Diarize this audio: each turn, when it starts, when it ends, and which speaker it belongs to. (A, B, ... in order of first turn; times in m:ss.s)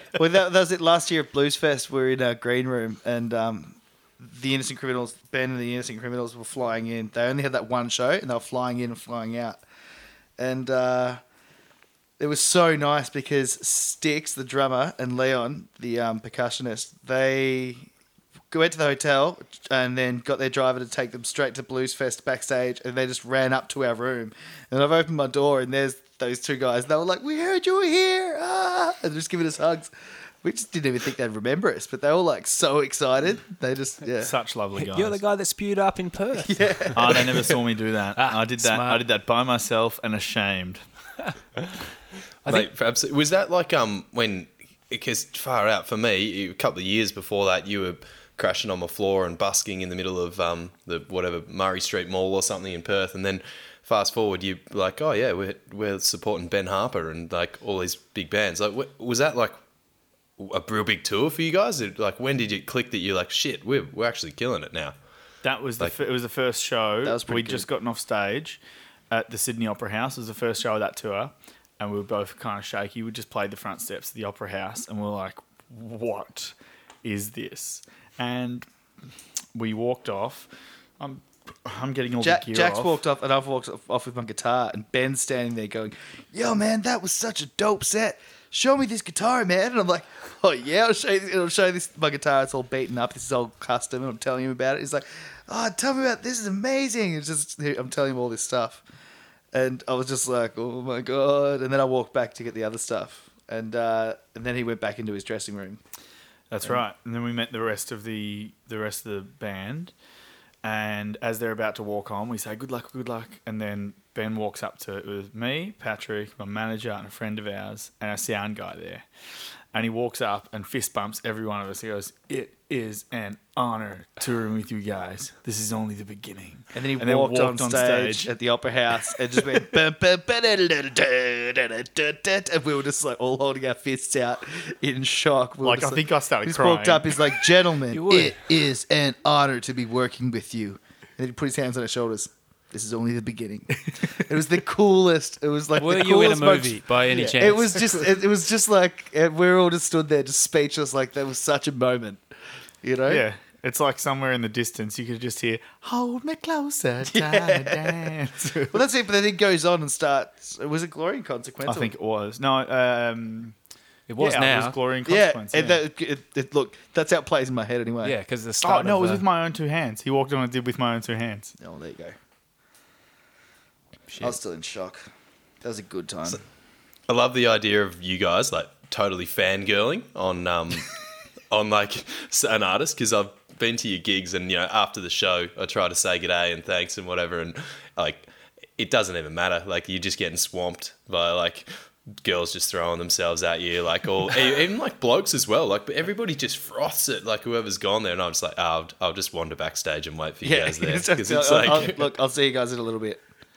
0:00.2-0:09.6 A
0:10.4-0:11.2 A
0:12.2-0:17.9 A
0:18.5-0:29.9 A
0:30.4-0:34.3 A
0:34.2-0:35.2 B
0:34.8-0:37.2 C
0:36.4-0:37.6 A
0:36.9-0:40.8 B
0:38.2-0:39.0 C
0:42.5-0:59.6 D
1:00.4-1:05.0 D
1:05.4-1:08.6 B
1:07.0-1:07.7 A
1:09.1-1:18.7 B
1:19.6-1:20.5 B
1:21.0-1:23.0 B
1:22.2-1:38.8 A
1:39.5-1:45.8 A
1:46.5-1:49.9 B
1:50.6-1:59.0 B
1:59.7-2:08.3 B
2:06.7-2:32.2 A
2:15.6-2:17.5 B
2:17.9-2:18.4 C
2:25.8-2:28.0 C
2:27.1-2:27.5 B
2:32.8-2:33.2 A
2:33.1-2:38.8 B
2:37.1-2:38.1 A
2:38.7-2:41.9 A
2:41.6-2:43.6 B
2:44.1-2:44.8 C
2:44.2-2:45.8 B
2:45.0-2:48.2 A
2:48.0-2:49.3 C
2:48.6-2:51.5 B
2:51.6-2:52.2 A
2:54.2-2:55.0 A
2:55.6-2:56.4 A
2:57.1-3:01.0 D
3:01.5-3:22.1 D
3:20.4-3:23.2 A